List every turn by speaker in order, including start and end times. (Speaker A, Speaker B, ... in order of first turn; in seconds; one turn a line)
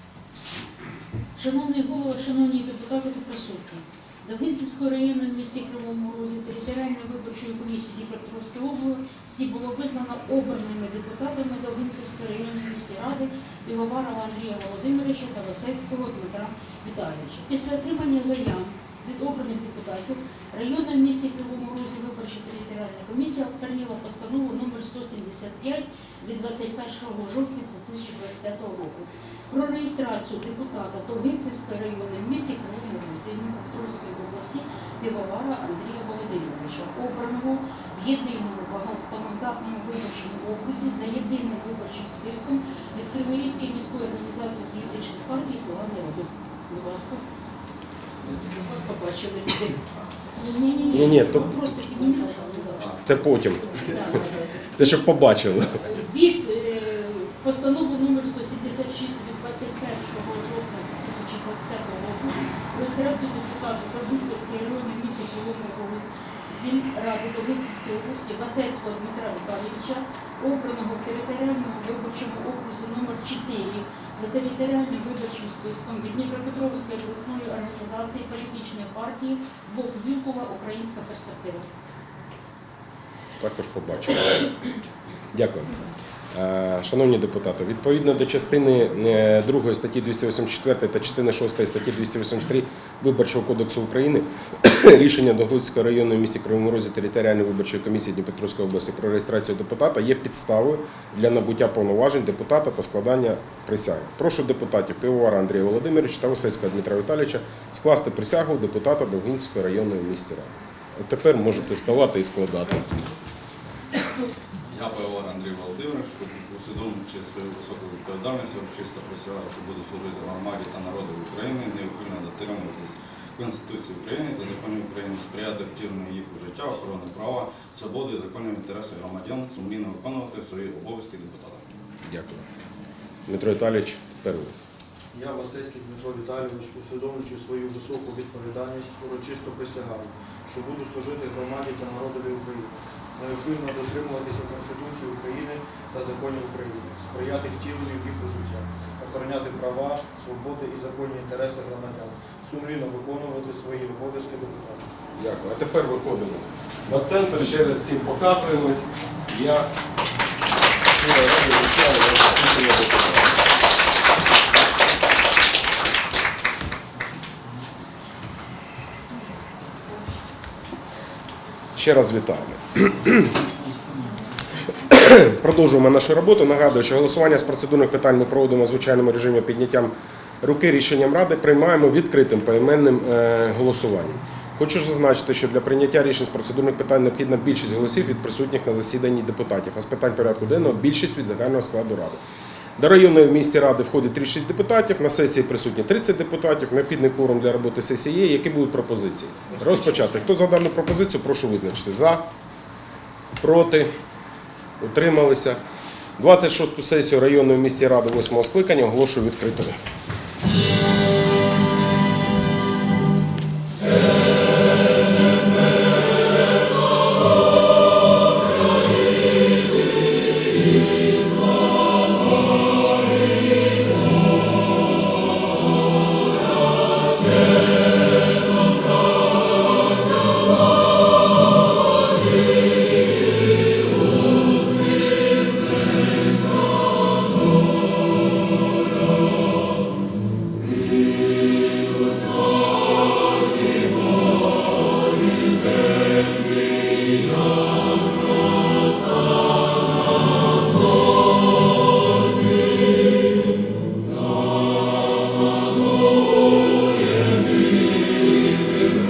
Speaker A: 1.4-47.2
Speaker A: 48.2-53.1
Speaker B: 50.9-51.6
Speaker B: 53.0-54.0
Speaker A: 53.6-54.9
Speaker B: 54.8-55.9
Speaker A: 55.8-81.7
Speaker B: 83.4-84.5
Speaker B: 85.3-85.8
Speaker B: 86.3-113.0
Speaker C: 114.7-131.6
Speaker B: 132.0-132.4
Speaker B: 133.3-134.5
Speaker D: 135.1-154.8
Speaker B: 155.2-159.7
Speaker B: 160.8-163.3
Speaker B: 171.7-173.4
Speaker B: 174.9-192.2
Speaker B: 192.8-202.2
Speaker B: 203.4-203.9
Speaker B: 204.8-205.6
Speaker B: 206.2-209.8